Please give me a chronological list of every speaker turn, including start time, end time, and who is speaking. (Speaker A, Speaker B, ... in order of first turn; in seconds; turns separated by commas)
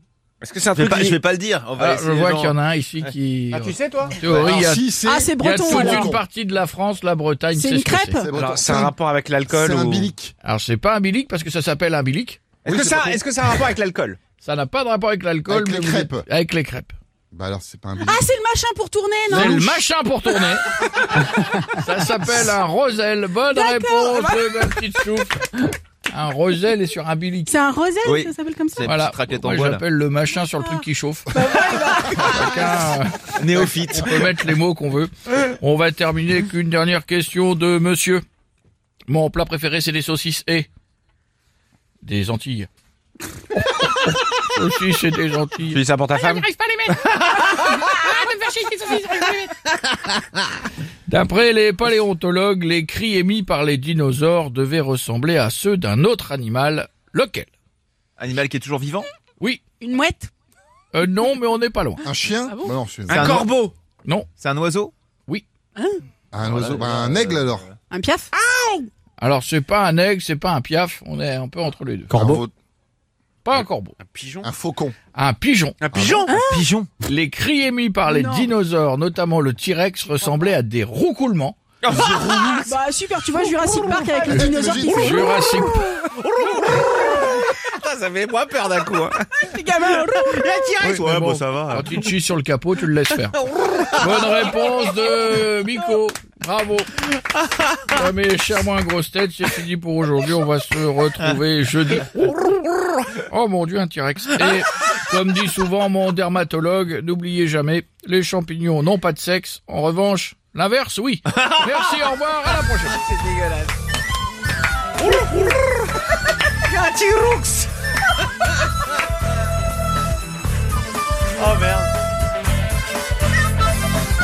Speaker A: 0.4-1.2, Speaker B: 0.7-2.6, Speaker C: 1.8-8.2, Speaker A: 3.5-4.5, Speaker D: 4.2-6.2, Speaker E: 5.0-6.1, Speaker E: 7.5-8.3, Speaker D: 8.2-8.9, Speaker A: 8.3-10.1, Speaker D: 9.5-10.3, Speaker C: 10.4-12.4, Speaker A: 12.6-14.2, Speaker D: 12.7-13.6, Speaker C: 14.4-16.9, Speaker D: 15.5-16.3, Speaker D: 17.3-18.2, Speaker E: 18.0-19.9, Speaker C: 19.3-27.6, Speaker E: 21.2-21.6, Speaker E: 23.5-24.5, Speaker E: 27.5-28.9, Speaker B: 28.0-29.8, Speaker C: 28.8-38.2, Speaker E: 30.6-32.9, Speaker B: 33.4-34.3, Speaker C: 39.1-40.7, Speaker C: 42.0-42.7, Speaker C: 43.8-45.8, Speaker A: 45.7-46.5, Speaker C: 51.0-57.5, Speaker B: 58.2-59.1, Speaker E: 59.8-60.3, Speaker C: 60.9-62.0, Speaker D: 62.0-63.5, Speaker E: 62.5-62.8, Speaker B: 63.1-63.7, Speaker A: 63.1-63.7, Speaker B: 64.4-64.9, Speaker E: 65.8-66.0, Speaker D: 66.3-67.7, Speaker B: 66.4-67.8, Speaker E: 67.9-68.3, Speaker C: 69.2-72.1, Speaker D: 72.1-72.5, Speaker C: 73.4-73.9, Speaker A: 74.0-74.5, Speaker D: 74.4-75.0, Speaker C: 75.1-75.8, Speaker A: 75.8-76.3, Speaker D: 75.9-76.3, Speaker E: 76.3-76.7, Speaker B: 76.4-76.9, Speaker C: 77.0-81.6, Speaker E: 78.0-78.5, Speaker A: 81.8-82.7, Speaker D: 81.9-82.5, Speaker E: 82.2-86.0, Speaker D: 84.3-85.3, Speaker C: 84.8-85.9, Speaker A: 86.4-89.2, Speaker E: 86.7-87.3, Speaker E: 89.4-90.8, Speaker A: 89.9-91.0, Speaker C: 90.8-93.4, Speaker B: 90.8-91.9, Speaker A: 93.5-94.0, Speaker C: 94.0-97.0, Speaker C: 97.8-113.0, Speaker A: 113.0-113.7, Speaker A: 116.7-117.7, Speaker A: 121.4-121.9